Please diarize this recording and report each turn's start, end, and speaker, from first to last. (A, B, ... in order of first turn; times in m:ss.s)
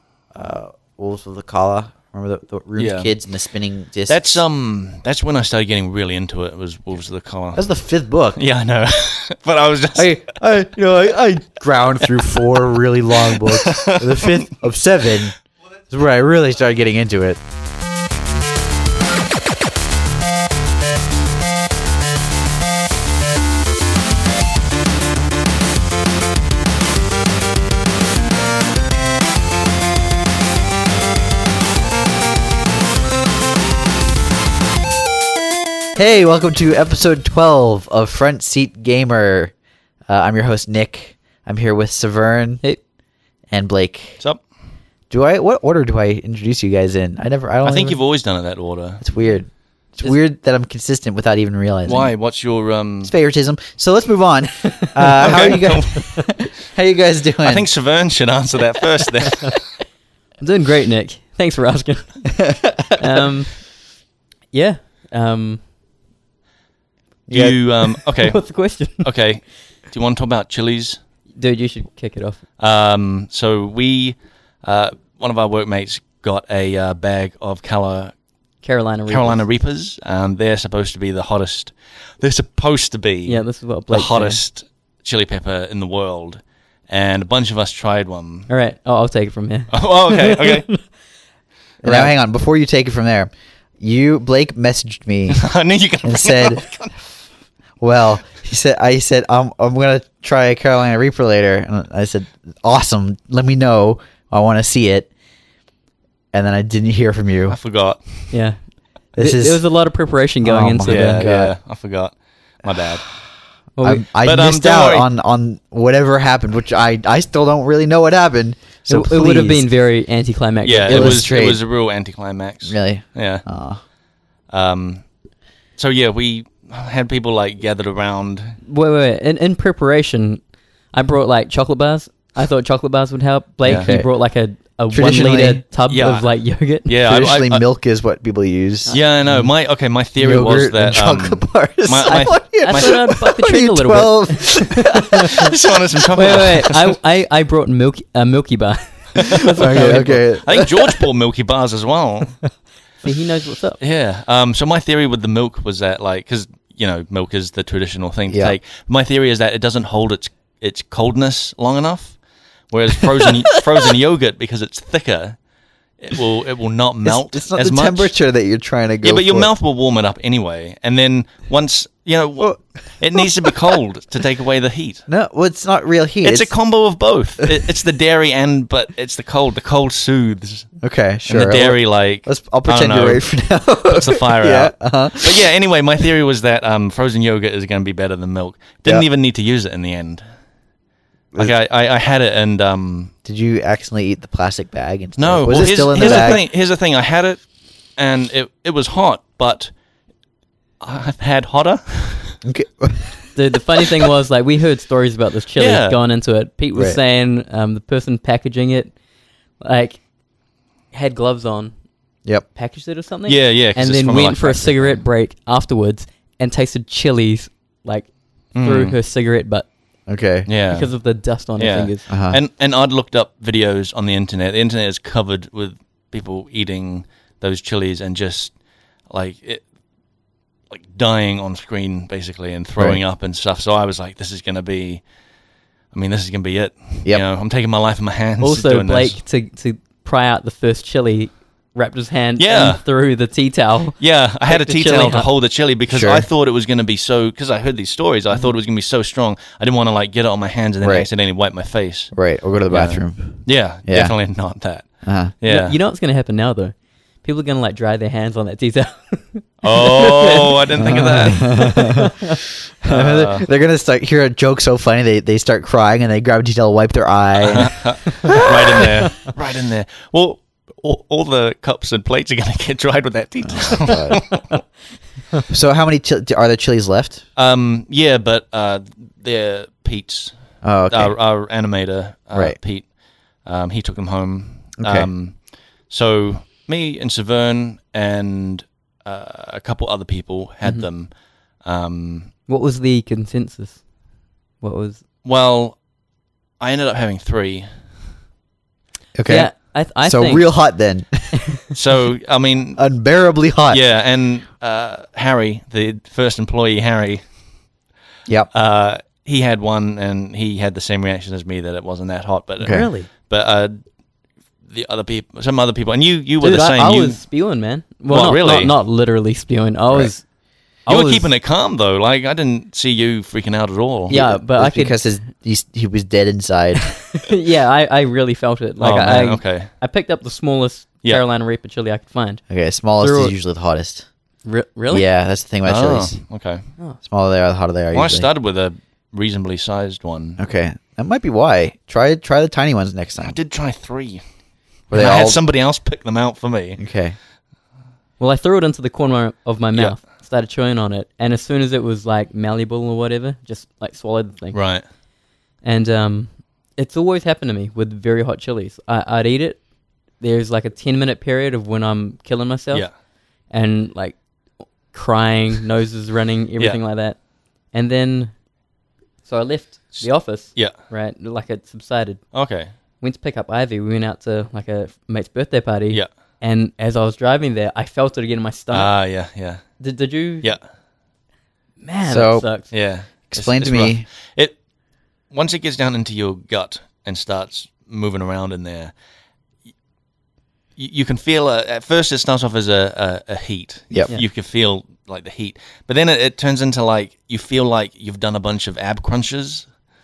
0:00.3-0:04.4 A
0:02.8-0:03.1 B
0:04.1-0:07.7 B
0:07.6-0:08.4 A
0:08.4-0:10.3 B
0:10.0-0:17.4 A
0:13.3-0:14.5 B
0:36.0-0:39.5 A
0:40.1-0:42.6 A
0:43.5-0:44.2 A
0:45.1-0:48.0 A
0:47.6-0:49.0 B
0:49.0-0:52.1 A
0:51.9-0:53.1 B
0:53.0-0:57.6 A
0:55.2-0:56.4 B
0:57.4-0:59.7 B
1:00.4-1:02.2 C
1:02.3-1:03.0 A
1:03.0-1:03.6 C
1:04.5-1:05.6 C
1:07.3-1:07.6 A
1:07.3-1:11.0 B
1:08.2-1:09.0 C
1:11.4-1:12.4 C
1:12.6-1:18.1 B
1:18.6-1:19.4 C
1:19.1-1:28.5 B
1:23.3-1:24.4 C
1:28.5-1:30.8 C
1:29.7-1:30.8 B
1:31.8-1:35.4 A
1:31.9-1:32.1 C
1:35.3-1:37.0 B
1:36.0-1:36.6 A
1:37.8-1:45.1 A
1:46.3-1:47.6 A
1:47.5-1:48.4 B
1:48.3-1:51.3 C
1:49.2-1:49.6 A
1:50.4-1:51.5 A
1:50.9-1:53.1 B
1:53.8-1:54.0 C
1:53.8-1:59.7 A
1:54.2-1:55.1 B
1:58.9-2:01.3 C
2:00.6-2:03.4 B
2:00.9-2:01.6 A
2:02.6-2:03.8 A
2:04.5-2:05.0 B
2:05.8-2:08.6 B
2:08.6-2:16.9 C
2:13.6-2:13.9 B
2:13.6-2:14.1 A
2:14.9-2:15.6 A
2:15.9-2:17.6 B
2:17.0-2:19.6 A
2:18.9-2:23.1 B
2:20.2-2:25.8 A
2:22.6-2:25.1 C
2:25.4-2:26.9 B
2:26.2-2:30.3 C
2:29.6-2:31.0 A
2:29.6-2:32.4 B
2:33.0-2:33.8 C
2:33.8-2:42.2 B
2:38.3-2:38.6 A
2:42.7-2:45.4 B
2:46.0-2:48.1 B
2:47.0-2:49.5 A
2:49.0-2:55.0 B
2:53.2-2:53.5 A
2:55.1-2:56.5 A
2:56.2-3:00.7 B
3:00.8-3:05.5 A
3:01.3-3:03.2 B
3:03.8-3:10.2 B
3:11.4-3:13.1 B
3:13.2-3:16.4 A
3:15.2-3:17.4 B
3:18.0-3:19.7 B
3:20.8-3:22.4 B
3:22.4-3:23.3 A
3:23.4-3:29.0 C
3:25.6-3:26.0 B
3:29.6-3:30.0 C
3:30.9-3:31.8 C
3:32.5-3:39.7 C
3:33.3-3:35.0 B
3:38.5-3:39.0 B
3:40.1-3:40.5 A
3:40.5-3:40.9 B
3:40.7-3:42.0 C
3:41.6-3:48.6 B
3:42.1-3:42.4 A
3:49.1-3:49.6 B
3:50.7-3:55.0 B
3:55.9-3:59.2 B
3:58.4-4:05.3 C
4:02.4-4:02.8 B
4:04.0-4:12.1 B
4:05.9-4:06.3 A
4:10.8-4:11.1 A
4:12.1-4:14.1 A
4:12.7-4:14.9 B
4:15.0-4:15.3 A
4:15.4-4:15.8 B
4:15.5-4:22.4 C
4:19.6-4:21.7 B
4:20.8-4:22.1 A
4:22.8-4:29.1 A
4:22.9-4:23.5 B
4:27.4-4:34.5 B
4:33.4-4:34.3 A
4:35.5-4:37.2 A
4:37.4-4:40.4 B
4:40.6-4:41.2 A
4:40.9-4:42.9 B
4:43.4-4:52.3 B
4:44.8-4:45.1 A
4:52.5-4:53.8 C
4:54.6-4:55.0 C
4:55.2-4:55.8 B
4:56.6-4:57.7 B
4:59.2-5:01.4 A
4:59.3-5:00.6 C
5:01.7-5:02.8 B
5:02.8-5:03.8 A
5:03.7-5:07.2 B
5:08.5-5:13.8 B
5:12.6-5:12.9 A
5:12.6-5:13.1 C
5:14.7-5:17.2 B
5:16.4-5:20.2 C
5:18.1-5:18.7 B
5:20.9-5:21.2 C
5:20.9-5:24.2 B
5:24.1-5:27.0 A
5:24.1-5:25.0 C
5:27.1-5:32.4 C
5:28.8-5:29.7 B
5:32.5-5:34.1 A
5:33.0-5:33.3 C
5:34.4-5:35.1 C
5:34.9-5:36.2 A
5:35.6-5:36.6 B
5:37.0-5:38.3 A
5:37.9-5:40.4 B
5:40.4-5:43.4 A
5:43.2-5:44.2 B
5:44.9-5:46.8 B
5:44.9-5:45.4 A
5:46.8-5:47.2 A
5:48.2-5:54.6 C
5:54.5-5:54.8 B
5:55.6-5:59.6 C
6:00.2-6:02.9 C
6:03.5-6:04.2 C
6:04.9-6:07.2 C
6:07.7-6:08.4 C
6:09.3-6:12.2 C
6:10.0-6:10.7 B
6:12.3-6:12.7 B
6:13.0-6:18.9 C
6:18.7-6:19.8 B
6:19.8-6:20.5 C
6:21.8-6:22.7 C
6:22.0-6:22.5 A
6:22.7-6:24.6 B
6:23.3-6:24.0 A
6:25.3-6:28.9 B
6:30.8-6:39.7 B